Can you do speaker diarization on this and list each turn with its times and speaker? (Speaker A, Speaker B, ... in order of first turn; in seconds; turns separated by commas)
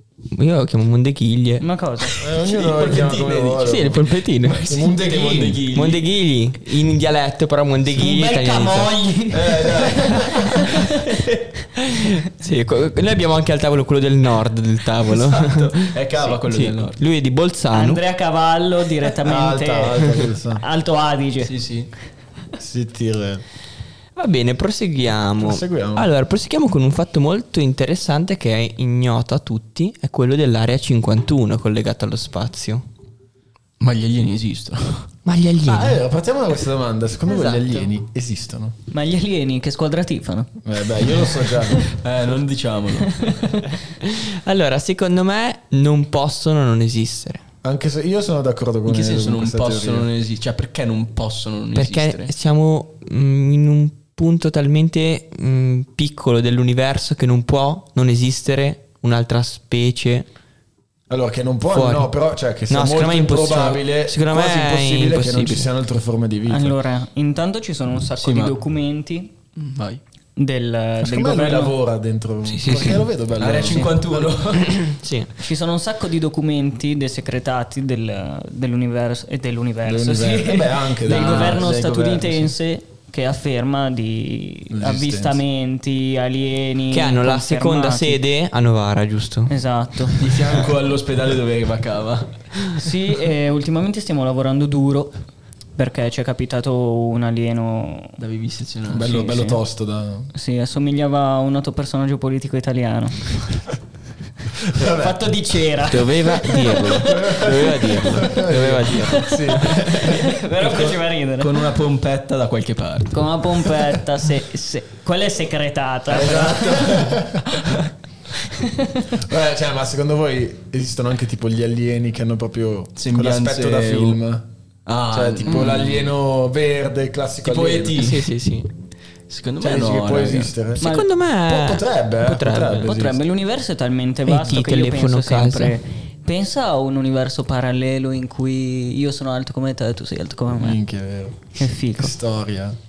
Speaker A: 0.3-1.6, Speaker B: 1.6-2.2, Speaker C: 2.2-4.0, Speaker D: 2.3-6.0, Speaker A: 3.6-4.8, Speaker C: 4.6-5.7, Speaker A: 5.7-9.1, Speaker B: 7.9-11.0, Speaker D: 9.3-11.4, Speaker A: 11.8-18.0, Speaker D: 15.1-17.0, Speaker B: 17.7-21.5, Speaker C: 19.2-20.6, Speaker D: 21.4-21.9, Speaker C: 22.6-23.4, Speaker A: 24.2-32.9, Speaker C: 25.4-26.1, Speaker D: 33.8-35.1, Speaker A: 35.2-36.0, Speaker C: 35.7-38.8, Speaker A: 37.3-37.9, Speaker B: 38.9-41.4, Speaker C: 40.6-41.9, Speaker D: 41.9-43.4, Speaker B: 43.1-43.6, Speaker A: 44.0-47.5, Speaker C: 47.6-50.1, Speaker D: 48.9-52.3, Speaker A: 51.8-60.3, Speaker C: 61.1-66.8, Speaker A: 61.7-62.1, Speaker A: 62.7-65.7, Speaker B: 66.5-69.3, Speaker D: 68.2-68.6, Speaker D: 69.5-70.0, Speaker B: 70.4-71.8, Speaker C: 71.0-74.3, Speaker A: 72.5-73.1, Speaker D: 73.4-74.7, Speaker A: 74.6-75.3, Speaker B: 75.4-88.2, Speaker C: 79.8-81.8, Speaker D: 81.1-82.4, Speaker C: 84.7-85.4, Speaker A: 86.9-89.5, Speaker B: 89.5-90.2, Speaker D: 90.2-92.4, Speaker B: 92.8-95.2, Speaker B: 95.8-98.2, Speaker D: 98.2-99.4, Speaker C: 98.9-100.3, Speaker B: 99.0-99.6, Speaker B: 100.3-103.6, Speaker C: 104.7-105.2, Speaker B: 104.8-107.5, Speaker A: 105.9-109.9, Speaker C: 107.1-110.1, Speaker D: 108.5-109.3, Speaker B: 109.1-111.7, Speaker D: 109.9-113.2, Speaker B: 113.1-117.1, Speaker C: 116.1-117.8, Speaker B: 118.5-119.1, Speaker C: 119.1-124.5, Speaker D: 123.0-124.2, Speaker D: 124.9-126.1, Speaker C: 125.1-128.1, Speaker D: 127.4-128.3, Speaker A: 128.0-128.7, Speaker D: 129.3-130.5, Speaker C: 129.6-133.2, Speaker A: 130.8-132.9, Speaker B: 132.8-140.8, Speaker A: 134.3-135.8, Speaker C: 140.6-142.8, Speaker B: 141.6-142.2